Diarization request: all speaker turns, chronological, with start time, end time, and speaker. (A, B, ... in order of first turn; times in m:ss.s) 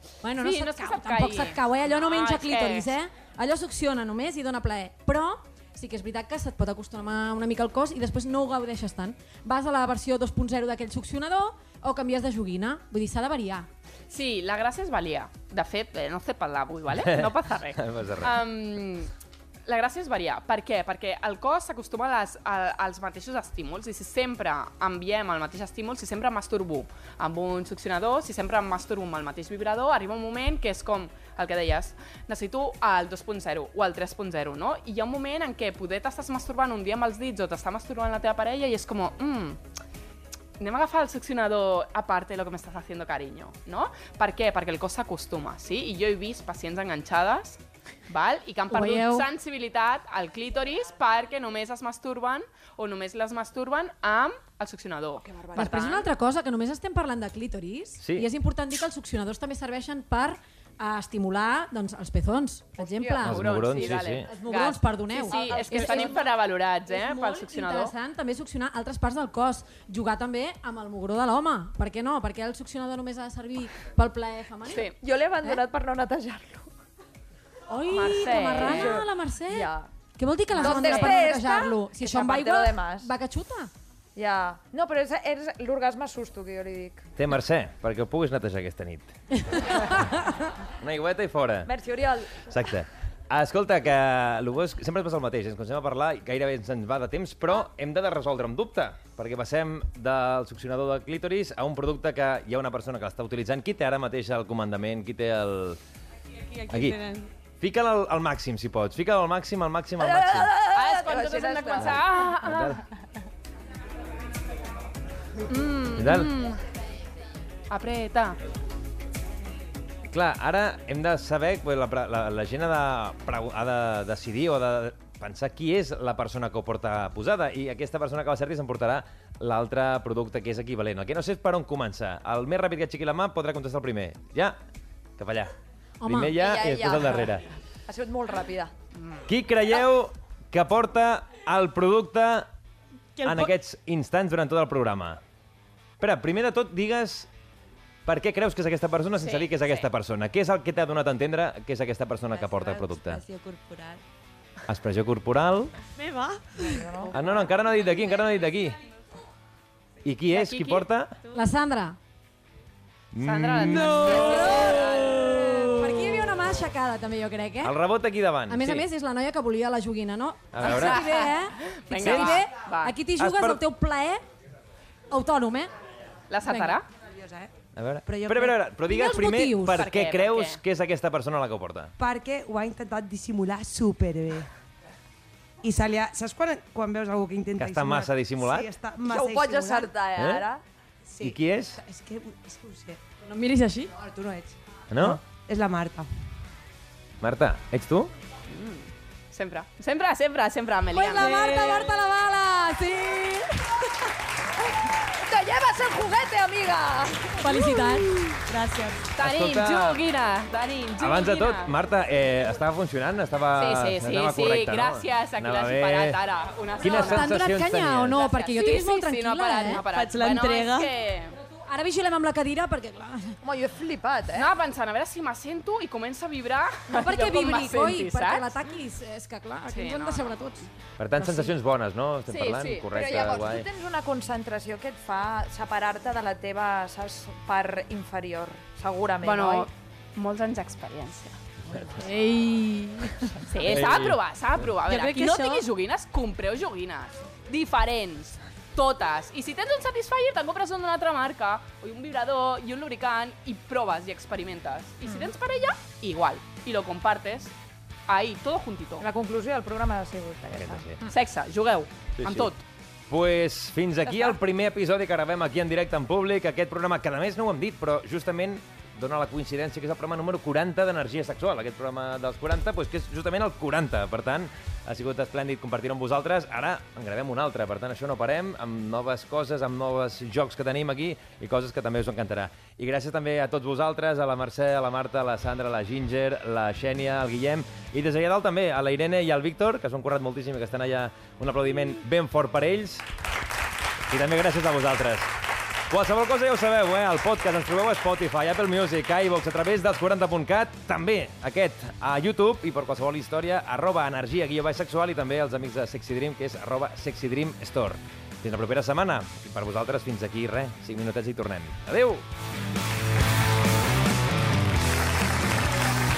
0:00.2-0:13.7 A
0:00.4-0:02.9 B
0:14.1-0:19.1 B
0:16.9-0:18.4 C
0:19.7-0:39.6 B
0:40.6-0:56.0 B
0:48.7-0:49.2 A
0:55.2-0:55.9 D
0:55.5-1:03.4 A
0:58.0-0:58.3 C
1:02.8-1:03.4 D
1:03.2-1:07.9 B
1:03.2-1:04.3 C
1:04.2-1:06.3 A
1:05.3-1:06.3 D
1:06.9-1:14.8 A
1:14.7-1:14.9 B
1:15.0-1:16.7 D
1:17.7-1:23.7 A
1:17.9-1:19.0 B
1:18.5-1:19.9 D
1:20.5-1:23.1 D
1:20.5-1:21.2 B
1:24.2-1:27.1 D
1:27.2-1:30.0 C
1:30.8-1:31.7 C
1:31.6-1:32.5 D
1:32.4-1:45.8 C
1:46.5-1:47.3 E
1:46.7-1:47.0 C
1:47.6-1:50.6 C
1:50.0-1:52.2 D
1:50.7-1:52.8 B
1:52.4-1:52.8 C
1:55.5-1:56.6 B
1:55.9-1:56.3 C
1:57.7-1:58.4 B
2:00.1-2:14.6 C
2:15.2-2:15.5 C
2:16.0-2:16.4 A
2:16.0-2:17.4 C
2:16.4-2:18.7 D
2:19.2-2:22.5 C
2:23.2-2:23.5 E
2:23.2-2:25.2 C
2:26.0-2:27.3 C
2:28.0-2:33.2 C
2:29.2-2:29.9 B
2:32.3-2:34.0 F
2:34.7-2:35.7 C
2:36.0-2:37.0 E
2:36.6-2:37.4 D
2:37.1-2:38.8 C
2:40.0-2:41.2 C
2:40.3-2:41.2 B
2:41.3-2:42.0 A
2:43.1-2:46.1 C
2:43.2-2:45.5 B
2:43.6-2:44.8 E
2:44.0-2:44.8 A
2:45.7-2:47.8 A
2:47.6-2:48.9 C
2:48.5-2:54.2 A
2:50.5-2:51.1 C
2:50.6-2:53.0 B
2:52.0-2:52.4 C
2:53.2-2:53.6 C
2:55.1-2:55.7 A
2:56.3-2:56.9 B
2:56.4-2:56.7 A
2:56.9-2:57.5 F
2:57.8-3:01.9 C
2:58.0-2:58.6 F
2:58.9-2:59.8 A
2:59.6-3:00.6 B
3:02.0-3:04.5 F
3:05.6-3:09.9 F
3:07.6-3:08.7 C
3:09.1-3:10.6 D
3:10.2-3:10.4 C
3:11.1-3:13.0 F
3:11.2-3:11.8 C
3:13.3-3:13.9 A
3:13.9-3:16.1 F
3:14.9-3:15.2 C
3:17.2-3:18.1 C
3:18.5-3:21.6 B
3:20.9-3:23.6 A
3:21.2-3:21.9 E
3:25.2-3:27.5 D
3:27.4-3:28.1 A
3:28.3-3:29.1 E
3:29.2-3:31.7 B
3:29.2-3:30.0 C
3:31.0-3:36.2 C
3:33.5-3:37.3 B
3:36.8-3:38.3 C
3:36.8-3:39.8 A
3:38.0-3:41.4 B
3:39.7-3:40.9 E
3:41.3-3:43.4 A
3:43.4-3:44.5 D
3:44.3-3:48.6 B
3:46.9-3:51.5 A
3:49.6-3:50.4 B
3:51.0-3:53.7 C
3:52.3-3:53.0 B
3:52.8-3:59.7 D
3:59.2-4:01.4 B
4:02.2-4:03.0 A
4:03.5-4:17.5 B
4:03.6-4:04.2 C
4:04.8-4:05.6 E
4:18.1-4:19.0 B
4:19.0-4:21.0 D
4:20.5-4:21.0 C
4:21.0-4:22.6 B
4:22.2-4:22.5 C
4:23.1-4:53.0 C
4:54.0-4:55.3 C
4:55.9-5:12.2 C